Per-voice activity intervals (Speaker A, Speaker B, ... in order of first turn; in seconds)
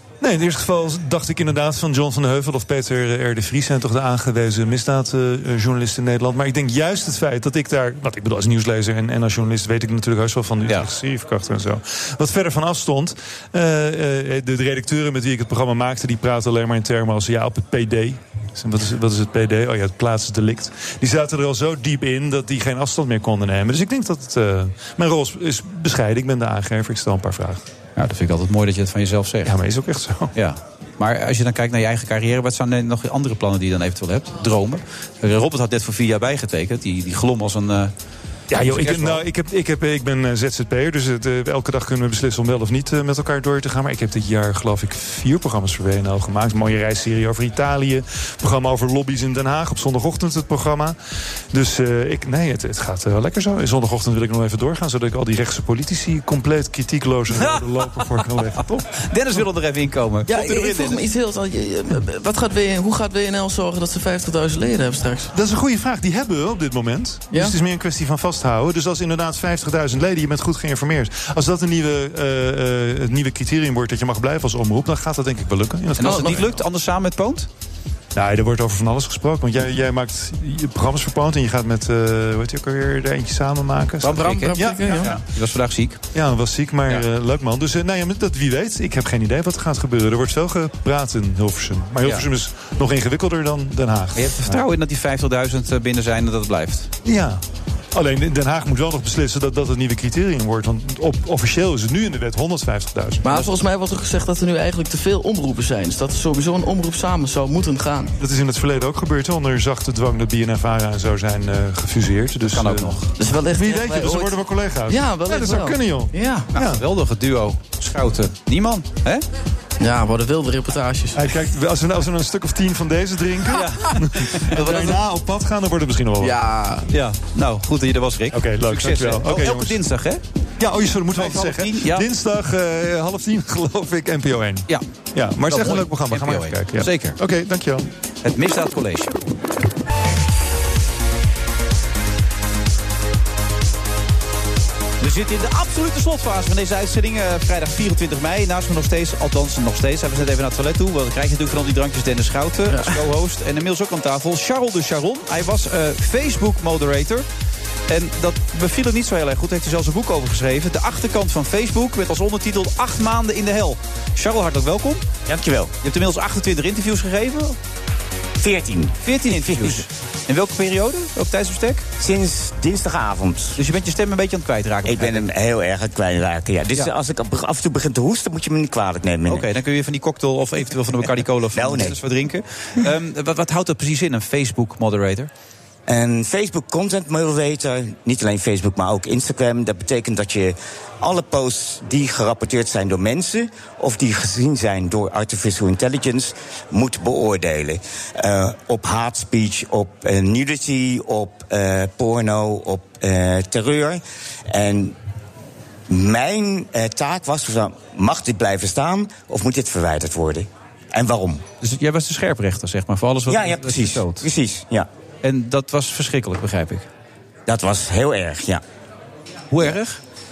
Speaker A: 0.2-27.6, 29.4-30.3, 38.5-51.0, 51.5-58.8, 65.3-76.6, 78.2-85.2, 86.1-94.6, 97.0-97.4, 97.9-103.3, 108.2-113.0, 113.5-116.8, 121.2-126.4, 128.3-129.8, 130.6-137.9
Speaker B: 27.9-29.5, 30.3-37.9, 38.5-39.2, 57.3-61.0, 76.0-77.5, 84.0-86.0, 94.2-96.9, 112.5-113.1, 116.5-119.2, 123.5-125.0, 126.9-130.2, 131.2-132.1, 135.4-137.2, 138.2-139.2, 145.0-157.2, 157.9-165.1, 165.8-167.6, 169.0-171.9, 173.6-175.3, 179.3-185.3, 211.6-214.3, 215.2-216.9, 219.5-220.0
Speaker C: 60.3-65.3, 76.0-76.4, 84.0-85.1, 103.2-108.2, 113.2-116.5, 119.8-121.3, 126.2-126.9, 152.7-153.0
Speaker D: 165.3-165.7, 168.4-169.8, 172.0-173.6, 174.8-179.5, 181.5-182.0, 185.9-204.9, 205.9-211.4, 213.3-214.9, 217.5-218.6